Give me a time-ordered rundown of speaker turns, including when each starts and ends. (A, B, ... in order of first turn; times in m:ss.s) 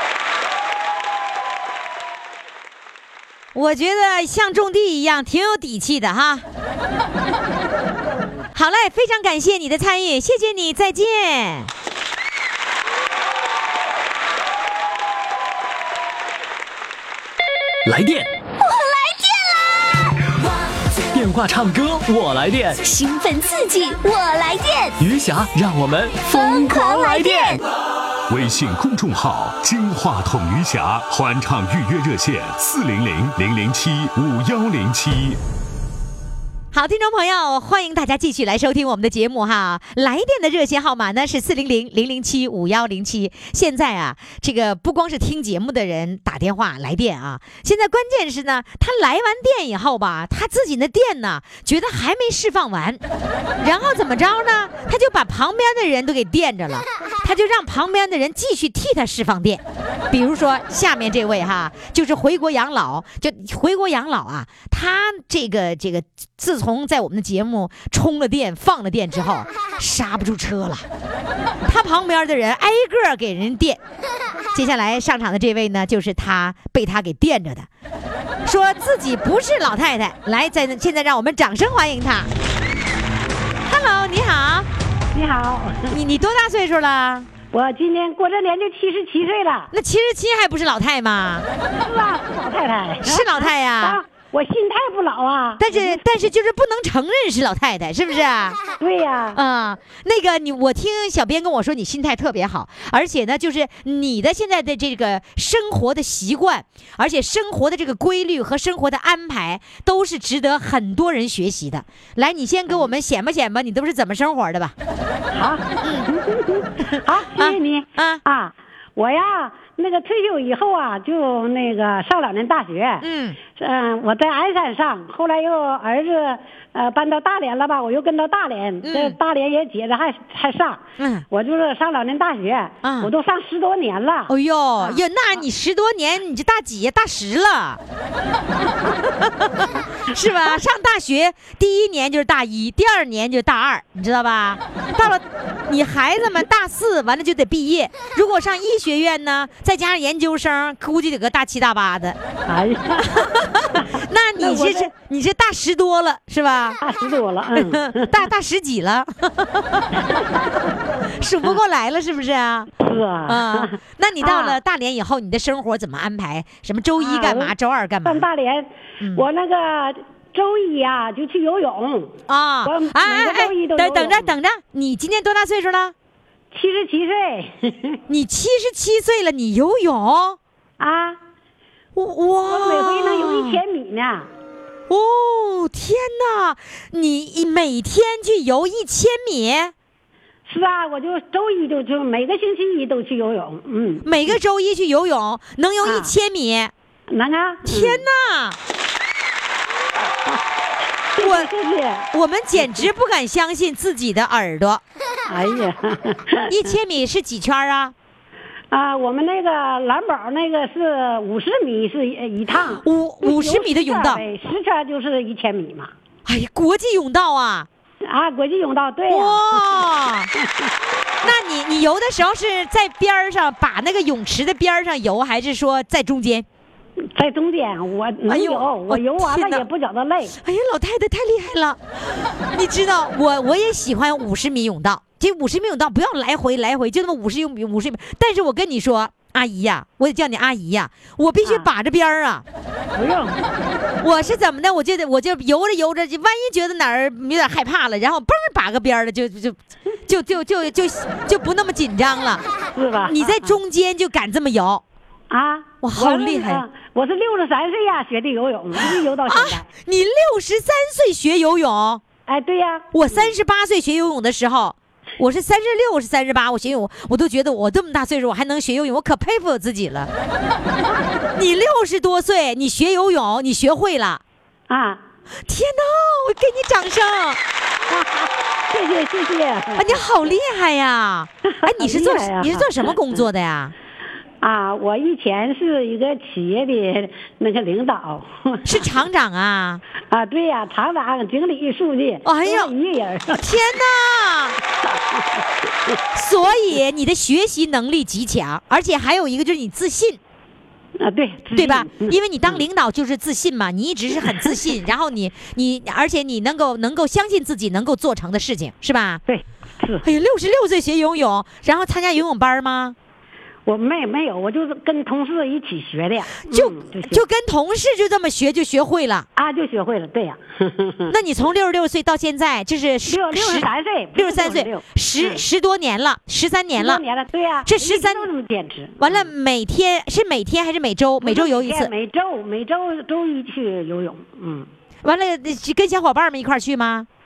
0:03.5-0:06.4 A
0:08.5-0:11.7 A
0:17.8-0:18.3 B
0:18.6-0:19.7 C
0:21.1-0:22.8 B
0:22.8-0:25.0 C
0:25.0-0:27.6 B
0:26.2-0:27.6 C
0:28.3-0:35.4 D
0:36.7-0:53.0 A
0:53.6-1:10.8 A
1:11.6-1:13.8 A
1:14.5-1:17.7 A
1:18.4-1:22.3 A
1:23.6-1:24.7 A
1:25.1-1:26.0 E
1:25.9-1:27.3 A
1:27.5-1:29.7 E
1:29.7-1:31.5 A
1:31.8-1:36.0 E
1:33.0-1:34.0 A
1:35.6-1:38.6 A
1:38.8-1:39.4 E
1:39.3-1:54.7 A
1:55.3-2:03.0 E
1:55.8-1:56.1 A
1:57.4-1:58.2 A
2:03.0-2:03.4 A
2:03.6-2:15.0 E
2:08.8-2:09.2 A
2:11.0-2:11.2 A
2:12.8-2:13.1 A
2:14.3-2:17.8 A
2:19.2-2:32.2 A
2:32.4-2:33.2 E
2:33.0-2:36.8 A
2:33.8-2:34.9 E
2:36.8-2:38.1 E
2:37.5-2:40.0 A
2:40.0-2:40.7 E
2:41.1-2:42.7 A
2:42.8-2:44.6 E
2:43.2-2:48.2 A
2:47.0-2:47.5 E
2:48.0-2:54.3 E
2:52.3-2:55.9 A
2:56.5-2:58.0 E
2:58.1-3:00.4 A
3:00.8-3:01.2 E
3:01.9-3:03.6 A
3:02.4-3:04.3 E
3:04.9-3:09.7 A
3:10.5-3:14.1 E
3:14.0-3:16.7 A
3:15.8-3:16.1 E
3:17.1-3:18.0 E
3:17.6-3:18.6 A
3:20.0-3:20.4 E
3:21.1-3:22.1 E
3:21.2-3:21.5 A
3:22.1-3:24.8 A
3:25.3-3:26.5 E
3:26.5-3:27.9 A
3:28.7-3:35.9 E
3:32.8-3:34.2 A
3:36.2-3:37.7 A
3:38.0-3:39.7 E
3:39.1-3:40.3 A
3:40.4-3:40.7 E
3:41.2-3:46.4 A
3:47.1-3:50.3 E
3:48.3-3:49.6 A
3:50.4-4:02.4 A
4:02.9-4:03.6 E
4:04.0-4:12.4 A
4:12.7-4:13.6 E
4:13.0-4:14.8 A
4:15.3-4:19.6 E
4:15.8-4:16.6 A
4:18.8-4:22.0 A
4:22.2-4:23.3 E
4:22.9-4:30.1 A
4:31.3-4:34.2 A
4:34.7-4:35.0 E
4:35.4-4:37.4 A
4:37.9-4:39.9 E
4:39.8-4:43.7 A
4:41.4-4:42.9 E
4:44.4-4:48.7 E
4:48.6-4:49.8 A
4:50.1-4:53.5 E
4:52.2-4:52.7 A
4:53.4-4:54.6 A
4:54.8-4:56.0 E
4:56.1-5:00.2 A
5:01.0-5:02.6 E
5:01.5-5:09.2 A
5:09.3-5:10.0 E
5:10.0-5:13.0 A
5:13.6-5:17.2 E
5:16.5-5:19.3 A
5:19.4-5:21.1 E
5:21.1-5:27.0 A
5:23.1-5:25.4 E
5:26.8-5:29.3 E
5:27.6-5:28.3 A
5:29.0-5:31.9 A
5:31.2-5:34.7 E
5:35.0-5:37.1 A